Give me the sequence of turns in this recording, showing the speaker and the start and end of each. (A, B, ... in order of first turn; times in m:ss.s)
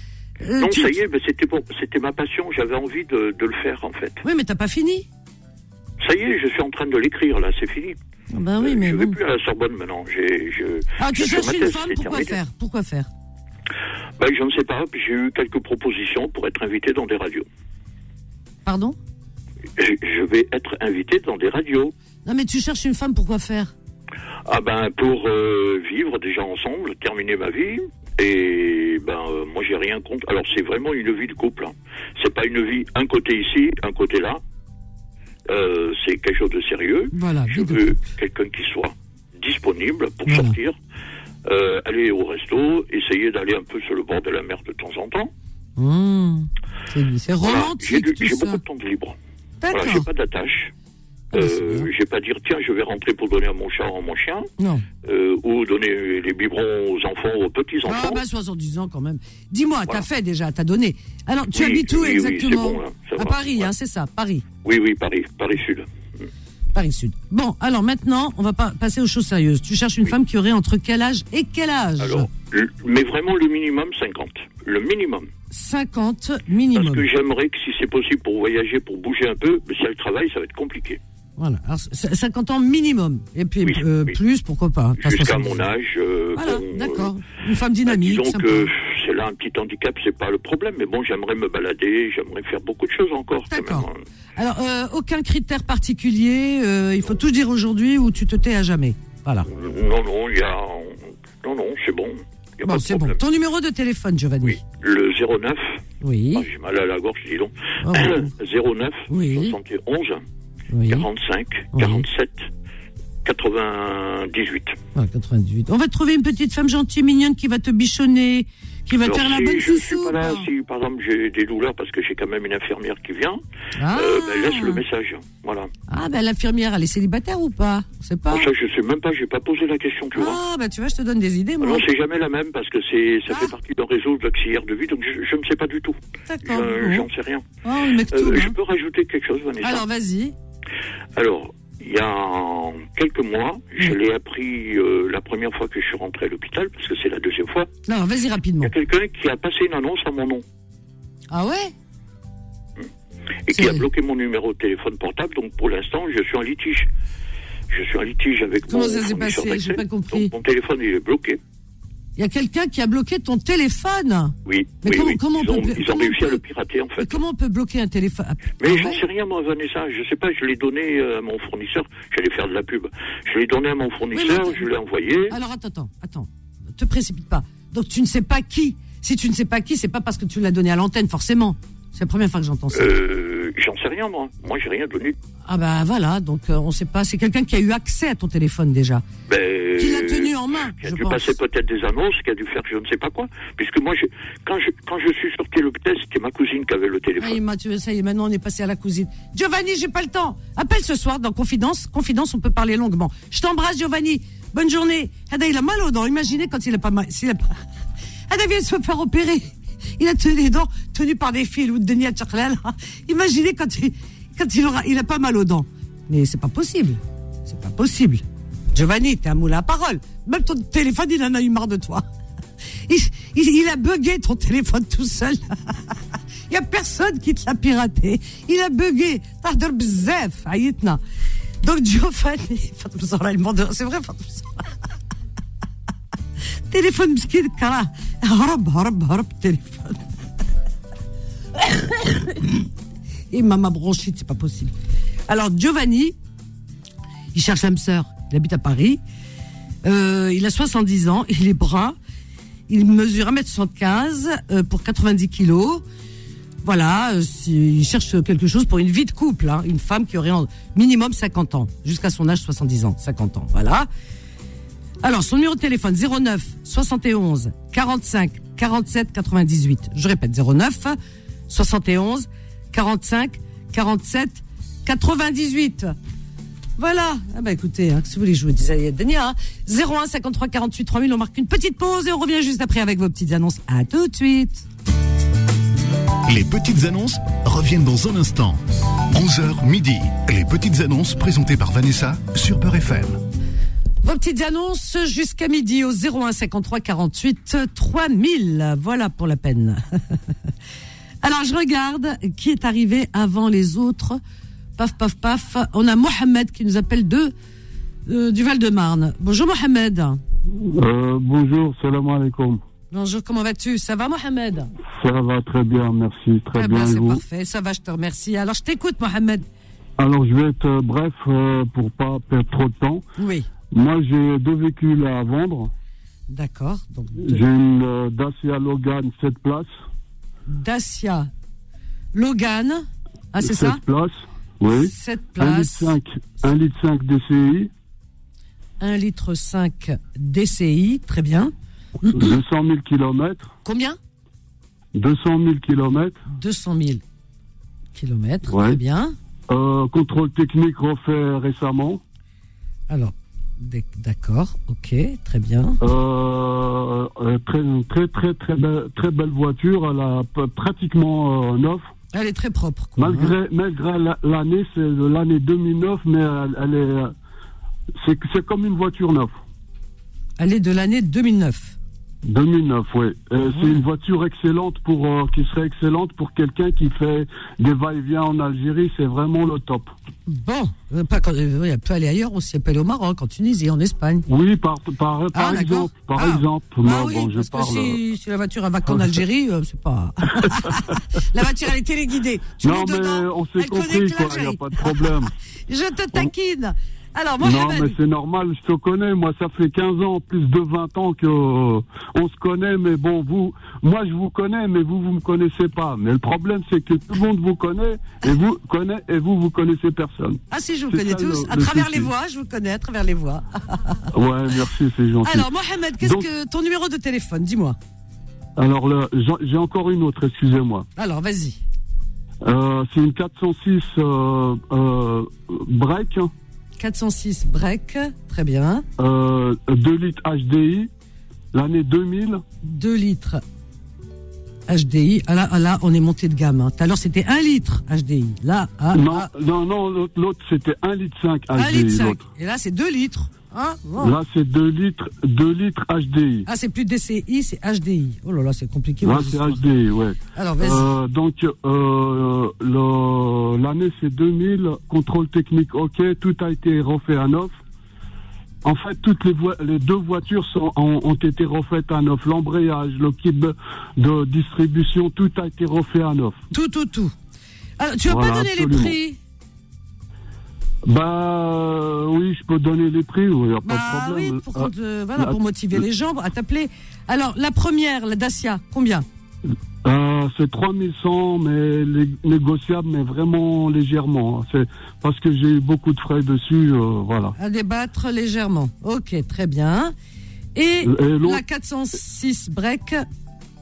0:00.4-0:01.0 A
0:00.6-0:04.2 B
0:04.2-0:05.1 A
0:06.0-0:08.0 B
0:08.3-0:09.2 A
0:08.6-0:12.4 B
0:11.0-0:13.1 A
0:14.2-0:17.5 B
0:18.6-0:19.0 A
0:19.8-0:21.9 B
0:22.2-0:23.7 A
0:24.5-0:34.4 B
0:35.5-0:40.8 B
0:37.1-0:38.0 A
0:40.3-0:40.6 A
0:41.4-0:45.3 B
0:45.8-0:48.6 A
0:47.4-0:49.2 B
0:49.6-0:50.1 A
0:49.7-0:50.7 B
0:51.3-0:51.9 A
0:51.3-0:54.5 B
0:54.6-0:54.8 A
0:55.0-0:58.2 B
0:57.8-1:04.4 A
1:01.5-1:03.7 B
1:04.6-1:05.9 B
1:06.7-1:12.3 A
1:12.0-1:15.3 B
1:15.5-1:17.0 A
1:16.7-1:21.0 B
1:21.4-1:25.7 A
1:23.6-1:24.1 B
1:25.0-1:27.1 B
1:26.4-1:28.7 A
1:27.9-1:34.0 B
1:33.5-1:39.5 A
1:39.5-1:43.2 B
1:42.6-1:44.6 A
1:44.5-1:45.8 B
1:46.0-1:46.5 A
1:46.3-1:50.2 B
1:47.8-1:48.3 A
1:49.1-1:49.6 A
1:50.7-1:51.1 A
1:50.9-1:52.5 B
1:51.7-1:52.1 A
1:53.2-1:54.8 B
1:55.0-2:00.5 A
1:59.0-2:03.4 B
2:03.8-2:04.8 A
2:03.9-2:05.7 B
2:05.9-2:08.5 A
2:08.3-2:10.4 B
2:10.1-2:11.9 A
2:11.6-2:17.4 B
2:13.3-2:13.5 A
2:16.3-2:17.1 A
2:17.6-2:18.6 A
2:18.1-2:19.8 B
2:19.6-2:20.4 A
2:21.2-2:27.7 B
2:27.9-2:28.7 A
2:28.6-2:30.4 B
2:31.3-2:31.7 A
2:33.5-2:36.9 B
2:33.5-2:33.9 A
2:37.7-2:41.4 B
2:38.7-2:40.3 A
2:42.2-2:46.4 A
2:44.5-2:47.2 B
2:47.0-2:49.0 A
2:48.6-2:55.4 B
2:54.1-2:54.7 A
2:55.3-3:02.9 A
3:02.7-3:05.2 B
3:05.5-3:09.0 A
3:09.3-3:17.4 B
3:09.8-3:11.3 A
3:17.2-3:27.6 A
3:28.3-3:42.0 A
3:42.9-3:45.9 A
3:46.5-3:51.0 A
3:51.6-3:54.6 A
3:56.7-4:00.0 A
4:01.6-4:02.6 A
4:03.3-4:04.7 A
4:05.3-4:06.2 A
4:07.3-4:09.0 A
4:09.8-4:12.0 A
4:12.7-4:15.8 A
4:16.6-4:23.9 A
4:25.0-4:31.0 A
4:31.5-4:35.9 A
4:36.8-4:44.7 A
4:46.3-4:48.6 C
4:49.1-4:53.2 C
4:54.0-5:00.2 A
5:01.2-5:04.2 A
5:04.8-5:07.3 A
5:08.1-5:10.2 A
5:10.6-5:12.6 D
5:12.9-5:14.7 A
5:14.9-5:17.2 D
5:16.5-5:19.4 A
5:20.0-5:23.0 D
5:23.2-5:23.5 A
5:23.7-5:25.7 D
5:26.3-5:27.4 A
5:27.2-5:29.7 D
5:30.5-5:31.3 A
5:32.1-5:33.8 A
5:33.4-5:37.7 D
5:34.7-5:36.0 A
5:38.8-5:41.5 A
5:42.0-5:42.3 A
5:42.1-5:43.5 D
5:43.6-5:44.0 A
5:45.0-5:46.2 D
5:46.3-5:47.0 A
5:48.0-5:49.1 A
5:48.5-5:48.8 D
5:49.5-5:52.0 D
5:52.9-5:55.8 A
5:55.8-6:01.9 D
6:02.1-6:03.3 A
6:03.0-6:07.1 D
6:08.0-6:09.4 D
6:10.4-6:11.8 A
6:12.2-6:19.9 D
6:13.5-6:13.8 A
6:20.3-6:24.3 A
6:24.3-6:28.0 D
6:25.3-6:35.1 A
6:32.6-6:35.3 D
6:35.7-6:38.0 A
6:37.4-6:52.1 D
6:50.5-6:54.0 A
6:54.1-6:55.5 D
6:55.2-6:57.8 A
6:56.0-6:56.3 D
6:58.6-7:00.9 D
7:01.0-7:01.6 A
7:02.4-7:06.3 D
7:06.8-7:08.8 A
7:09.0-7:10.9 D
7:11.5-7:12.4 D
7:12.6-7:13.4 A
7:14.7-7:19.3 A
7:18.9-7:22.2 D
7:21.5-7:24.1 A
7:24.0-7:26.5 D
7:26.5-7:29.6 A
7:29.0-7:37.5 D
7:30.4-7:30.9 A
7:38.6-7:46.4 D
7:46.5-7:47.1 A
7:47.8-7:49.2 A
7:48.1-7:49.0 D
7:50.9-7:55.8 D
7:53.6-7:59.1 A
7:59.8-8:07.4 D
8:07.4-8:09.9 A
8:10.6-8:13.0 A
8:10.8-8:11.4 D